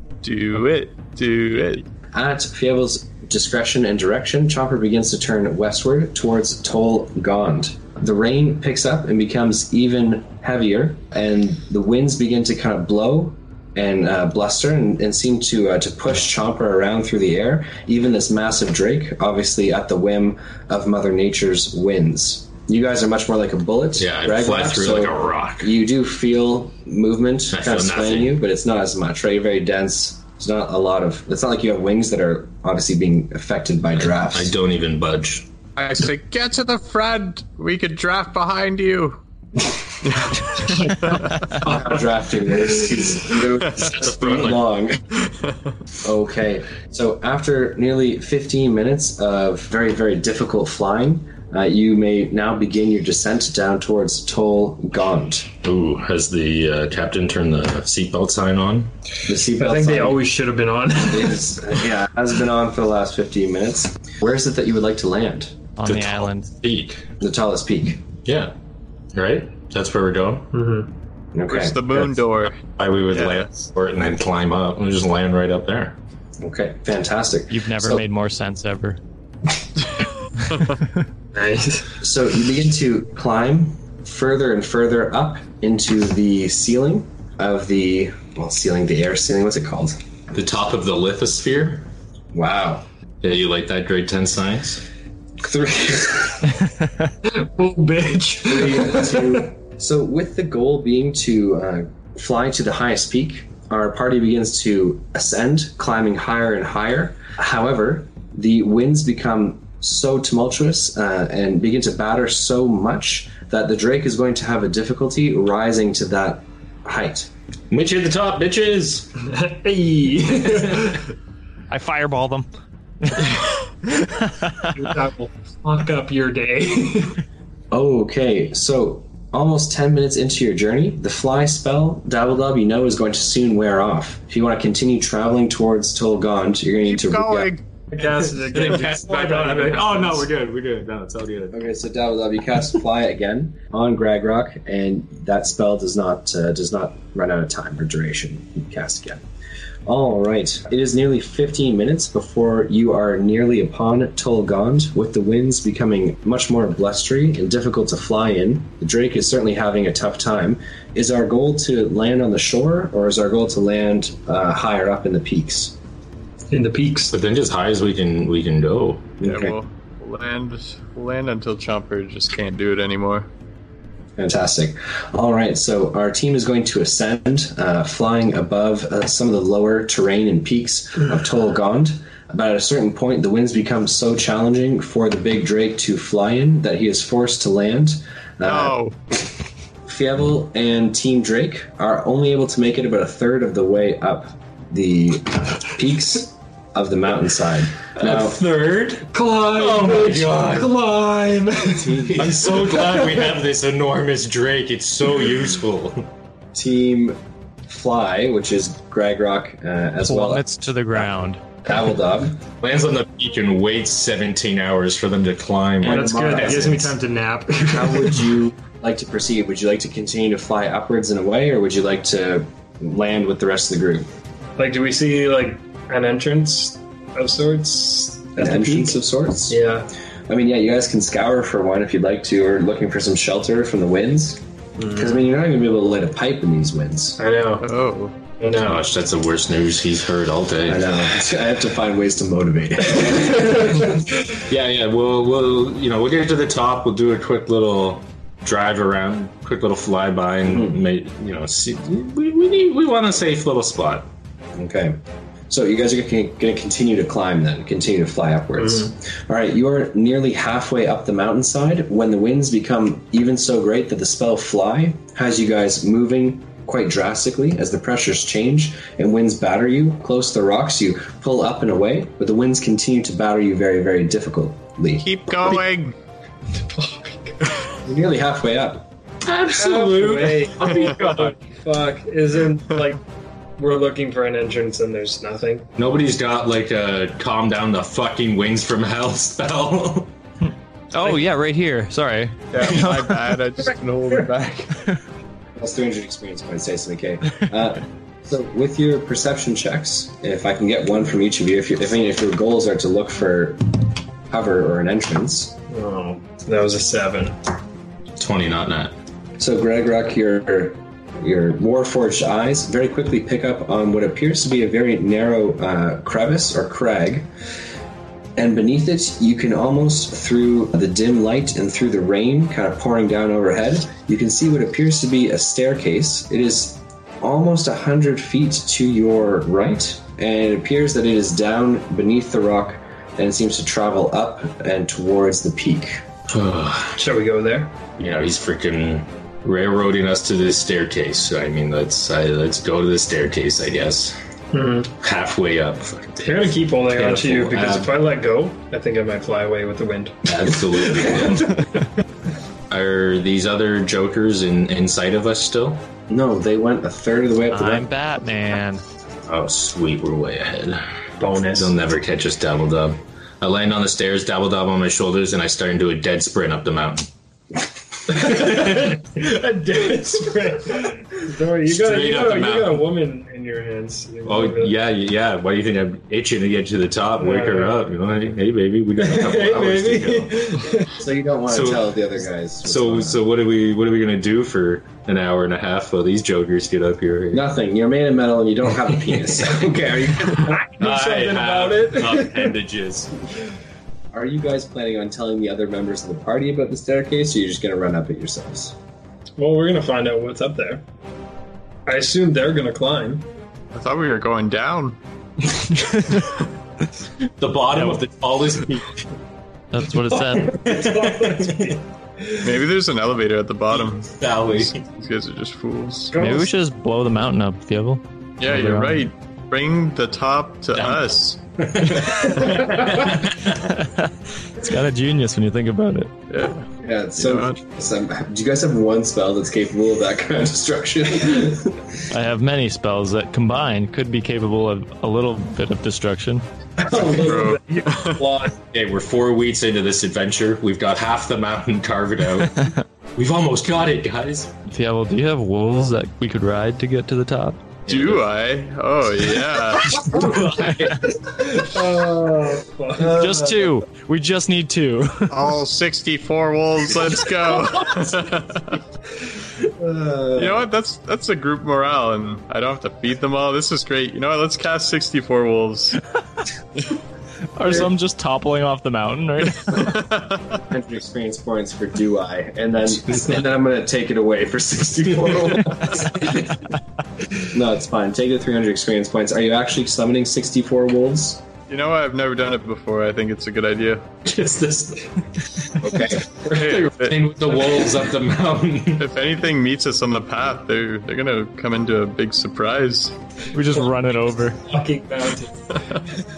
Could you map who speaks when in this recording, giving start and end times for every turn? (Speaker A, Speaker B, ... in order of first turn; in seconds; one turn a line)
Speaker A: 0.2-1.8
Speaker B: 2.1-34.5
Speaker C: 24.0-25.7
Speaker C: 27.5-28.4
Speaker C: 34.0-35.5
Speaker A: 35.8-39.2
Speaker A: 40.0-41.7
Speaker B: 41.4-45.0
Speaker C: 43.7-44.6
Speaker A: 45.2-45.5
Speaker B: 46.0-55.5
Speaker C: 55.6-58.9
Speaker B: 59.2-60.2
Speaker D: 59.5-61.6
Speaker B: 61.1-65.5
Speaker E: 65.8-66.5
Speaker C: 65.8-67.1
Speaker B: 67.2-68.0
Speaker C: 68.2-68.5
Speaker C: 69.1-70.5
Speaker D: 70.5-70.9
Speaker B: 71.3-72.2
Speaker A: 71.5-73.5
Speaker C: 72.7-76.0
Speaker B: 76.4-78.0
Speaker E: 77.5-79.0
Speaker A: 80.0-80.7
Speaker D: 81.3-81.9
Speaker B: 82.0-90.0
Speaker C: 90.3-91.9
Speaker B: 92.3-92.8
Speaker C: 93.2-94.8
Speaker B: 95.4-96.5
Speaker D: 97.2-99.5
Speaker B: 98.4-117.3
Speaker C: 117.7-119.1
Speaker D: 119.2-121.1
Speaker E: 121.7-122.5
Speaker E: 123.0-123.3
Speaker E: 124.2-124.7
Speaker D: 124.7-127.2
Speaker B: 127.7-137.5
Speaker A: 136.9-137.6
Speaker D: 137.9-140.3
Speaker C: 138.1-141.6
Speaker B: 141.5-149.2
Speaker B: 149.8-165.7
Speaker D: 166.5-167.1
Speaker C: 167.1-169.2
Speaker B: 169.2-169.5
Speaker A: 169.2-173.3
Speaker B: 174.2-188.8
Speaker A: 188.4-188.9
Speaker B: 189.8-198.4
Speaker C: 197.9-200.8
Speaker D: 199.1-202.7
Speaker B: 201.7-202.6
Speaker C: 202.1-206.1
Speaker B: 206.5-210.4
Speaker E: 210.0-211.4
Speaker B: 211.6-212.4
Speaker C: 212.6-216.8
Speaker B: 215.8-216.9
Speaker D: 215.8-218.4
Speaker B: 217.7-224.1
Speaker D: 224.6-229.0
Speaker B: 228.4-229.6
Speaker D: 229.5-229.9
Speaker B: 230.3-237.2
Speaker D: 234.8-235.1
Speaker D: 237.2-237.7
Speaker A: 237.6-238.1
Speaker D: 238.4-238.8
Speaker C: 238.5-241.0
Speaker B: 240.7-244.2
Speaker C: 244.4-254.1
Speaker B: 250.4-250.8
Speaker B: 254.5-255.0
Speaker B: 255.5-275.6
Speaker A: 275.0-275.9
Speaker D: 276.5-277.4
Speaker B: 277.8-278.9
Speaker C: 279.2-281.2
Speaker D: 279.5-283.0
Speaker D: 283.6-285.7
Speaker C: 285.8-290.1
Speaker E: 290.9-293.6
Speaker A: 292.5-294.6
Speaker E: 294.7-294.9
Speaker B: 295.6-305.6
Speaker D: 305.7-307.4
Speaker C: 308.2-308.9
Speaker B: 309.4-317.3
Speaker B: 318.4-336.0
Speaker C: 336.3-337.0
Speaker D: 336.9-337.8
Speaker C: 338.0-344.1
Speaker D: 344.5-344.9
Speaker C: 345.0-348.0
Speaker D: 346.2-351.6
Speaker C: 350.2-351.7
Speaker C: 352.7-355.8
Speaker B: 356.1-357.9
Speaker E: 357.5-358.8
Speaker C: 359.3-367.1
Speaker D: 361.2-361.7
Speaker D: 368.1-374.7
Speaker C: 368.1-368.9
Speaker C: 371.6-372.8
Speaker C: 374.2-380.5
Speaker D: 377.2-377.8
Speaker D: 379.0-380.9
Speaker B: 380.9-383.2
Speaker C: 381.5-382.0
Speaker C: 382.6-387.4
Speaker B: 387.3-390.6
Speaker D: 390.5-392.5
Speaker C: 390.8-393.1
Speaker B: 394.1-398.8
Speaker D: 399.4-400.8
Speaker D: 401.9-403.3
Speaker A: 403.7-405.0
Speaker C: 407.4-409.0
Speaker E: 409.7-410.6
Speaker C: 410.3-411.8
Speaker D: 410.6-411.7
Speaker A: 412.4-416.1
Speaker C: 414.0-414.8
Speaker D: 416.1-416.5
Speaker E: 416.1-419.1
Speaker A: 418.4-421.4
Speaker C: 421.6-423.5
Speaker E: 423.5-426.1
Speaker A: 426.3-426.7
Speaker B: 426.8-432.0
Speaker A: 427.2-427.6
Speaker E: 432.1-436.4
Speaker B: 436.9-437.6
Speaker D: 436.9-438.5
Speaker A: 437.1-438.3
Speaker C: 438.7-444.5
Speaker E: 444.7-447.6
Speaker C: 447.9-448.2
Speaker A: 447.9-450.2
Speaker C: 450.1-451.1
Speaker E: 450.5-450.9
Speaker D: 451.4-453.2
Speaker B: 453.0-453.7
Speaker E: 453.0-455.5
Speaker A: 455.3-458.8
Speaker B: 459.8-460.6
Speaker A: 460.3-466.0
Speaker E: 467.5-470.0
Speaker A: 469.7-470.4
Speaker B: 470.5-476.7
Speaker B: 477.3-481.4
Speaker A: 481.7-484.1
Speaker C: 484.2-485.2
Speaker B: 485.8-486.4
Speaker C: 485.9-489.1
Speaker A: 486.5-487.2
Speaker A: 489.0-493.1
Speaker E: 493.5-494.6
Speaker D: 494.6-495.5
Speaker A: 495.7-496.0